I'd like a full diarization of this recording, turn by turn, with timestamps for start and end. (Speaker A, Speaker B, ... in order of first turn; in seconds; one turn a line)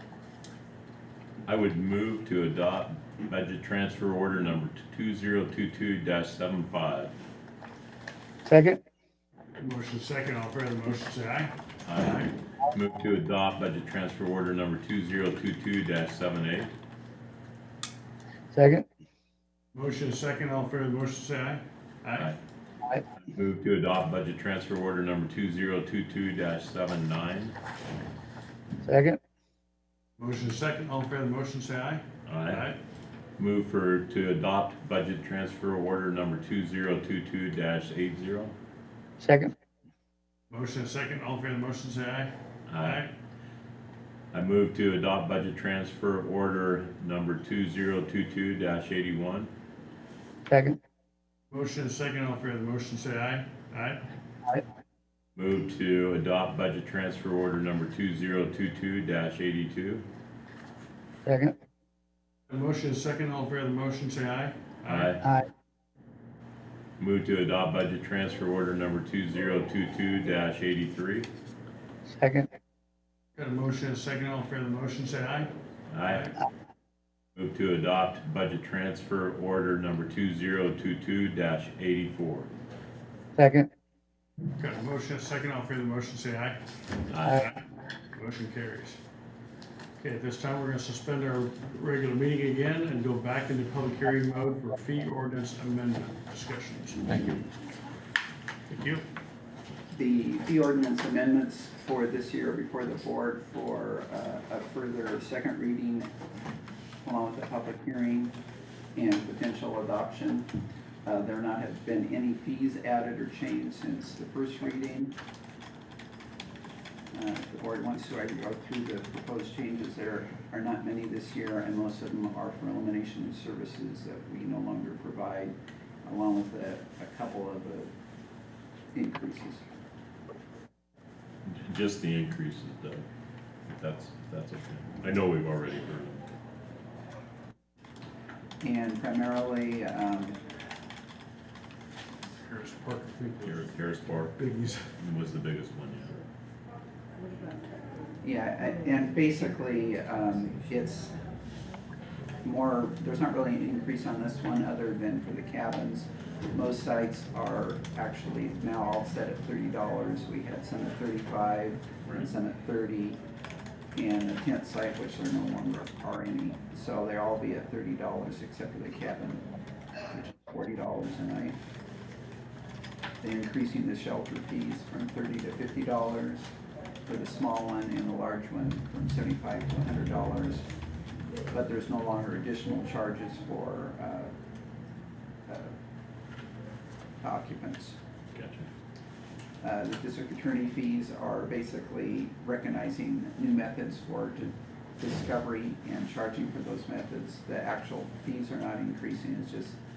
Speaker A: 1.4-7.1
Speaker B: 8.4-8.8
Speaker C: 9.6-12.3
Speaker A: 11.8-16.7
Speaker B: 18.5-18.8
Speaker C: 19.7-22.3
Speaker A: 23.3-27.5
Speaker B: 28.8-29.2
Speaker C: 30.2-32.8
Speaker A: 32.2-32.6
Speaker A: 33.4-38.5
Speaker B: 39.2-39.5
Speaker C: 40.5-43.1
Speaker A: 42.7-43.0
Speaker A: 44.3-49.5
Speaker B: 50.5-50.8
Speaker C: 51.5-54.0
Speaker A: 55.4-60.0
Speaker B: 61.2-61.5
Speaker C: 62.5-65.1
Speaker A: 64.9-65.2
Speaker A: 67.0-71.3
Speaker B: 72.1-72.5
Speaker C: 73.3-75.5
Speaker A: 75.9-76.3
Speaker C: 76.0-76.3
Speaker A: 77.3-82.5
Speaker B: 83.3-83.7
Speaker C: 84.6-86.6
Speaker A: 87.1-87.4
Speaker C: 88.1-89.0
Speaker C: 90.0-97.2
Speaker A: 97.1-97.4
Speaker C: 98.7-99.0
Speaker D: 99.9-106.1
Speaker D: 107.0-108.3
Speaker D: 108.9-110.5
Speaker D: 111.0-115.1
Speaker D: 117.1-127.9
Speaker D: 128.9-129.6
Speaker A: 131.4-133.0
Speaker A: 133.7-136.3
Speaker D: 138.6-140.4
Speaker C: 142.3-144.9
Speaker A: 143.4-144.3
Speaker A: 145.0-146.2
Speaker D: 148.2-151.1
Speaker D: 152.4-163.2
Speaker D: 163.9-169.4
Speaker D: 170.1-171.6
Speaker D: 173.2-176.5
Speaker D: 177.1-180.6
Speaker D: 181.5-184.3
Speaker D: 185.5-185.7
Speaker D: 187.2-187.9
Speaker A: 188.3-188.7
Speaker D: 189.6-199.8